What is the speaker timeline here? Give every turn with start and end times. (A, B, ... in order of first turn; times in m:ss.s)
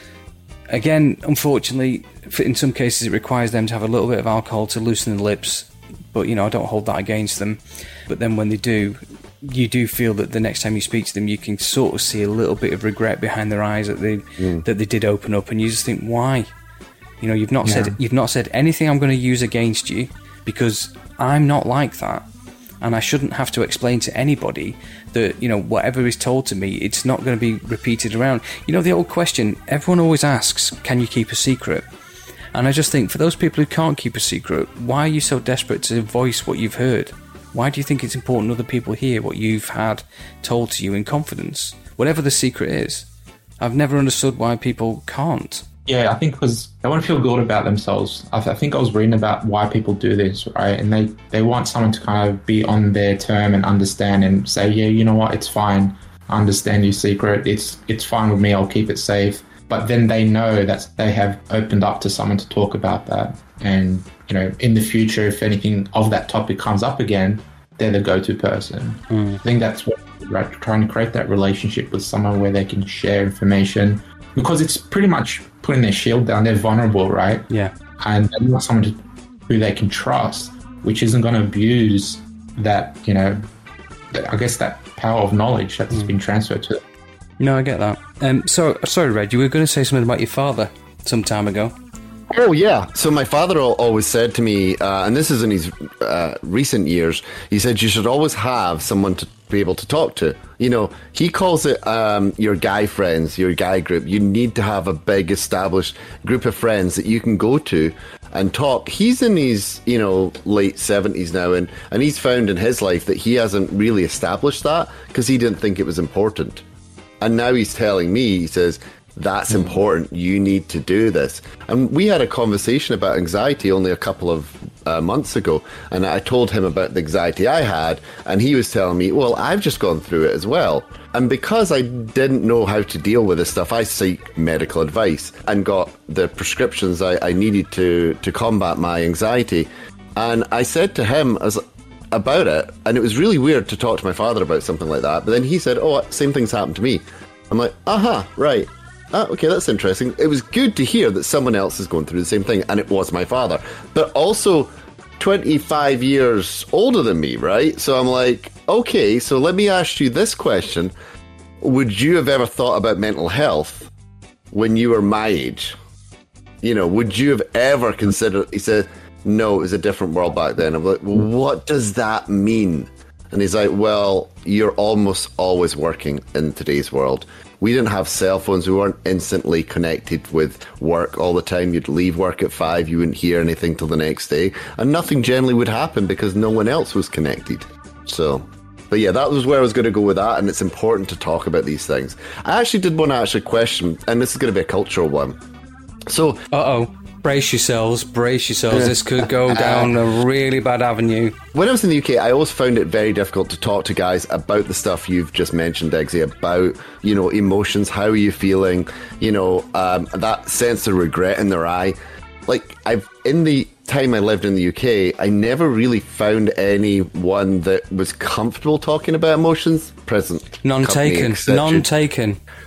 0:00.7-0:16.5 A
0:14.4-0:14.6 B
0:17.2-0:22.3 A
0:17.6-0:18.0 C
0:22.8-0:31.9 A
0:32.5-0:43.1 A
0:43.6-0:45.6 A
0:45.9-1:17.5 C
1:09.1-1:09.4 A
1:18.0-1:23.4 C
1:24.1-1:26.8 C
1:27.4-1:31.8 A
1:32.3-1:56.6 B
1:57.2-2:40.9 B
2:41.6-2:43.9 B
2:44.5-2:45.8 B
2:46.6-3:15.4 B
3:16.1-3:16.4 B
3:16.5-3:21.4 A
3:18.7-3:20.0 B
3:21.5-3:32.0 B
3:32.5-3:41.9 B
3:40.6-3:42.4 A